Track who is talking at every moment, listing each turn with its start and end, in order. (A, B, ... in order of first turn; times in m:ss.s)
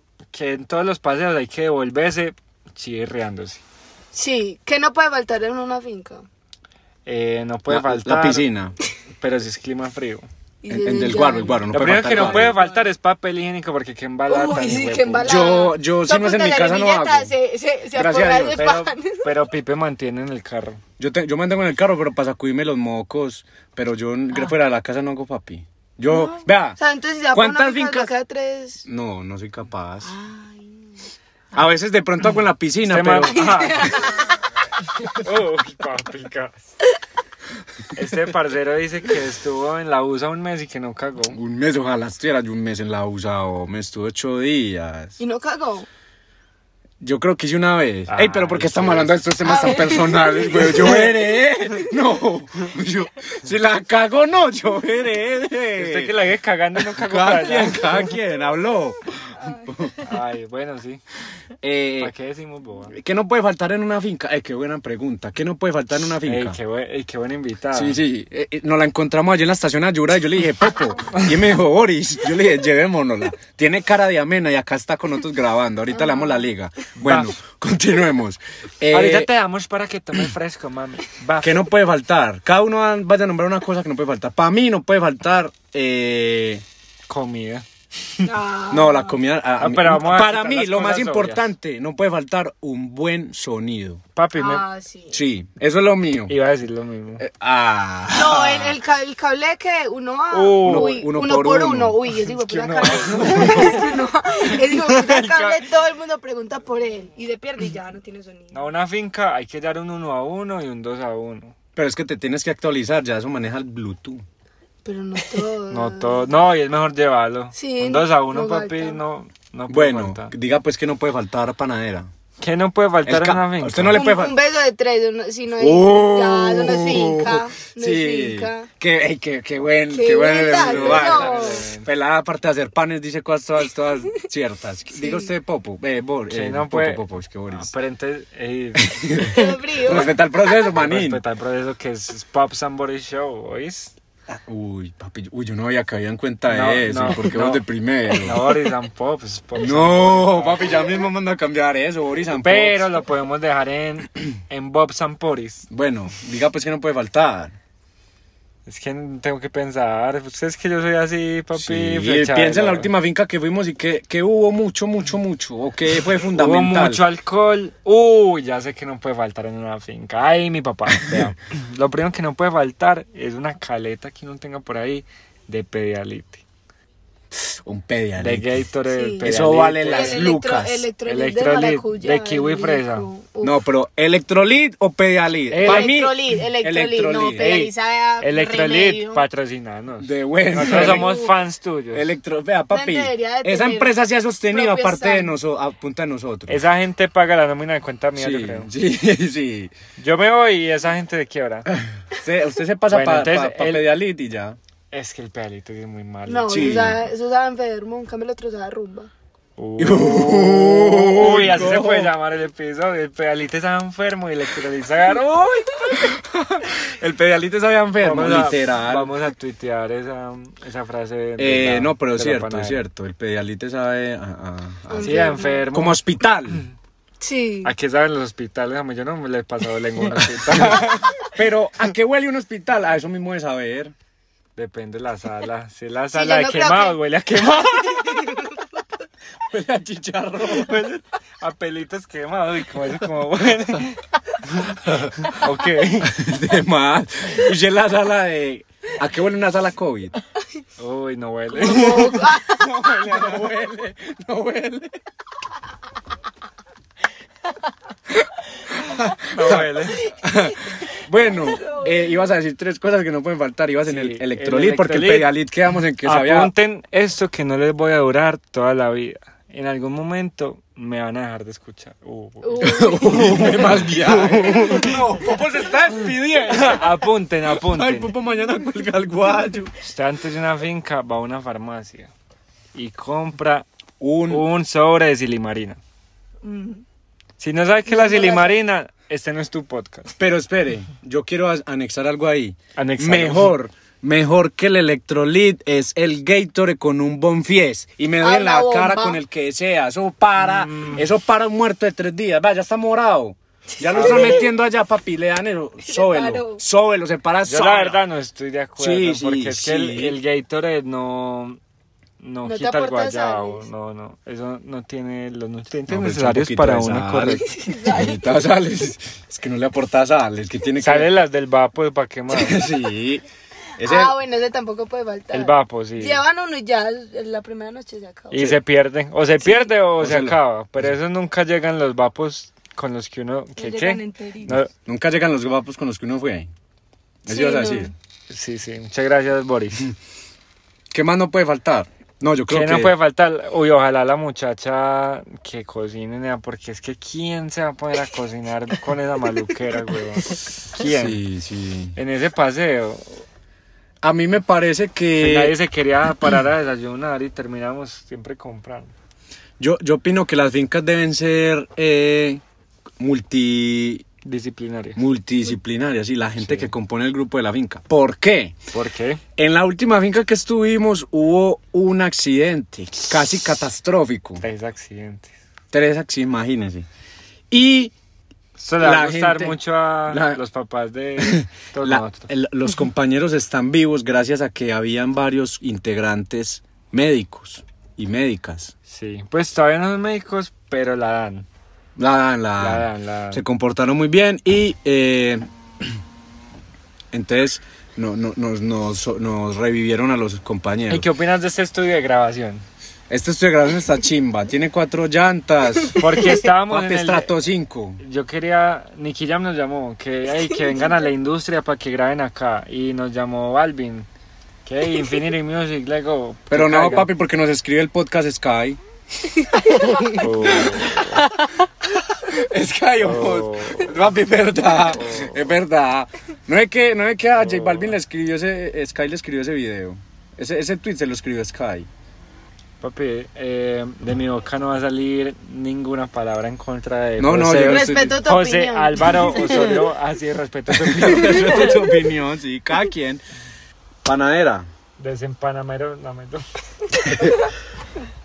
0:00.3-0:03.6 A
0:04.1-0:06.3 B
0:07.1-0:08.5 A
0:07.7-0:08.8 C
0:09.2-0:10.3 A
0:10.6-0:12.9 B
0:10.7-0:12.6 C
0:11.7-0:15.6 A
0:14.3-0:19.3 B
0:15.2-0:17.3 C
0:17.9-0:18.8 C
0:18.6-0:20.8 A
0:21.0-0:26.8 C
0:26.1-0:28.9 B
0:27.3-0:28.1 C
0:28.8-0:30.1 C
0:30.0-0:30.8 B
0:31.5-0:33.6 C
0:32.9-0:34.1 A
0:33.4-0:34.3 B
0:35.1-0:36.7 A
0:38.0-0:41.4 A
0:41.3-0:45.2 C
0:45.2-0:45.9 B
0:47.0-0:56.2 C
0:48.1-0:49.2 A
0:49.4-0:51.3 B
0:55.8-0:58.2 A
0:56.8-1:00.1 C
0:59.4-0:59.7 B
1:00.0-1:01.0 A
1:01.6-1:02.1 C
1:02.0-1:02.9 A
1:02.9-1:06.6 C
1:06.2-1:08.0 A
1:07.7-1:19.3 C
1:15.9-1:16.5 B
1:17.0-1:17.3 A
1:18.9-1:21.7 A
1:21.4-1:26.6 C
1:27.1-1:27.6 A
1:28.2-1:29.2 B
1:28.7-1:34.0 C
1:29.6-1:31.5 A
1:34.2-1:34.6 A
1:34.4-1:35.2 B
1:35.1-1:36.4 C
1:36.3-1:37.2 A
1:37.2-1:38.8 C
1:38.1-1:48.6 B
1:40.3-1:41.0 A
1:40.6-1:42.0 C
1:42.5-1:43.9 A
1:43.0-1:43.9 C
1:44.5-1:45.7 A
1:48.5-1:51.5 A
1:51.8-1:54.2 C
1:54.8-1:56.3 B
1:55.7-2:00.3 A
1:57.5-1:59.0 B
1:59.7-2:02.1 C
2:02.4-2:04.1 A
2:03.0-2:04.4 C
2:03.9-2:08.7 B
2:05.6-2:17.7 C
2:09.9-2:11.6 B
2:10.5-2:11.9 A
2:14.9-2:15.3 B
2:16.3-2:20.1 A
2:18.8-2:21.2 C
2:19.2-2:20.1 B
2:20.7-2:23.9 A
2:24.3-2:28.5 C
2:26.5-2:30.7 A
2:29.6-2:32.9 C
2:32.4-2:35.7 A
2:35.7-2:37.6 C
2:38.7-2:42.9 A
2:41.6-2:47.0 C
2:46.3-2:56.4 A
2:57.4-2:58.6 C
2:58.2-3:00.3 A
2:58.9-3:03.6 B
2:59.2-3:00.9 C
3:01.0-3:03.1 A
3:03.4-3:07.5 C
3:05.5-3:06.0 A
3:05.6-3:09.2 B
3:07.4-3:12.1 A
3:10.0-3:11.1 C
3:10.6-3:11.3 B
3:11.9-3:16.6 C
3:12.7-3:14.0 B
3:14.5-3:15.3 B
3:16.5-3:18.7 A
3:18.2-3:19.7 C
3:20.0-3:21.7 A
3:21.7-3:24.6 C
3:22.9-3:23.9 A
3:24.9-3:26.9 A
3:26.3-3:29.1 B
3:26.5-3:27.0 C
3:29.6-3:36.1 A
3:29.8-3:32.1 C
3:36.0-3:39.1 C
3:38.0-3:42.8 A
3:41.4-3:46.6 C
3:44.9-3:45.6 B
3:45.0-3:46.0 A
3:47.2-3:47.7 B
3:47.6-3:51.3 A
3:50.1-3:53.9 C
3:54.6-3:58.4 A
3:56.1-3:57.0 B
3:58.0-3:58.7 B
3:59.5-4:00.8 C
4:00.4-4:06.1 A
4:04.8-4:05.3 C
4:06.0-4:10.1 C
4:10.8-4:13.4 A
4:11.5-4:12.7 B
4:12.5-4:15.0 C
4:18.2-4:26.5 C
4:19.3-4:20.1 A
4:21.5-4:21.9 B
4:23.8-4:25.3 A
4:26.0-4:35.0 A
4:32.4-4:34.9 B
4:32.6-4:37.0 C
4:36.5-4:38.1 A
4:37.5-4:39.7 C
4:39.8-4:42.1 A
4:42.7-4:43.7 A
4:44.0-4:44.5 C
4:44.3-4:45.8 A
4:46.4-4:46.8 B
4:47.4-4:50.1 A
4:47.9-4:48.6 B
4:50.2-5:08.0 C
4:52.8-4:53.5 A
4:58.2-4:59.2 B
5:00.4-5:01.0 A
5:03.8-5:04.4 B
5:03.9-5:04.4 A
5:05.8-5:06.6 B
5:07.4-5:11.6 A
5:08.8-5:10.2 C
5:12.2-5:17.5 A
5:12.4-5:13.7 B
5:15.9-5:21.1 C
5:17.4-5:18.2 B
5:20.8-5:22.6 A
5:22.3-5:23.2 C
5:23.8-5:24.2 C
5:23.8-5:28.5 B
5:25.3-5:26.2 A
5:28.3-5:34.7 A
5:29.4-5:29.7 B
5:30.0-5:30.9 C
5:33.6-5:34.6 B
5:34.8-5:36.5 C
5:37.2-5:37.9 C
5:37.3-5:37.9 B
5:38.3-5:39.9 A
5:40.9-5:42.9 C
5:42.5-5:51.2 A
5:50.8-5:52.0 C
5:52.0-5:53.2 A
5:54.0-5:55.6 C
5:55.2-5:58.9 A
5:59.6-6:02.4 C
6:03.0-6:04.1 C
6:04.2-6:05.0 A
6:05.0-6:08.6 C
6:06.4-6:06.7 A
6:08.7-6:09.2 A
6:09.4-6:14.4 C
6:14.4-6:15.3 A
6:15.7-6:16.9 C
6:17.5-6:17.9 C
6:18.6-6:22.3 A
6:18.8-6:19.6 C
6:20.1-6:20.4 C
6:21.2-6:28.7 C
6:28.9-6:31.5 A
6:32.0-6:35.8 C
6:32.6-6:33.4 A
6:37.1-6:41.1 C
6:40.9-6:42.6 A
6:43.1-6:48.0 C
6:46.0-6:47.3 A
6:48.0-6:54.1 A
6:54.7-6:57.1 A
6:56.5-6:58.8 C
6:59.8-7:01.2 C
6:59.8-7:00.0 B
7:00.1-7:01.3 A
7:02.2-7:11.9 C
7:03.0-7:03.9 A
7:04.8-7:05.4 A
7:07.4-7:08.0 A
7:12.8-7:21.8 A
7:17.2-7:18.2 C
7:17.6-7:19.8 B
7:20.7-7:23.2 C
7:24.0-7:24.7 C
7:25.0-7:26.4 A
7:27.1-7:27.4 C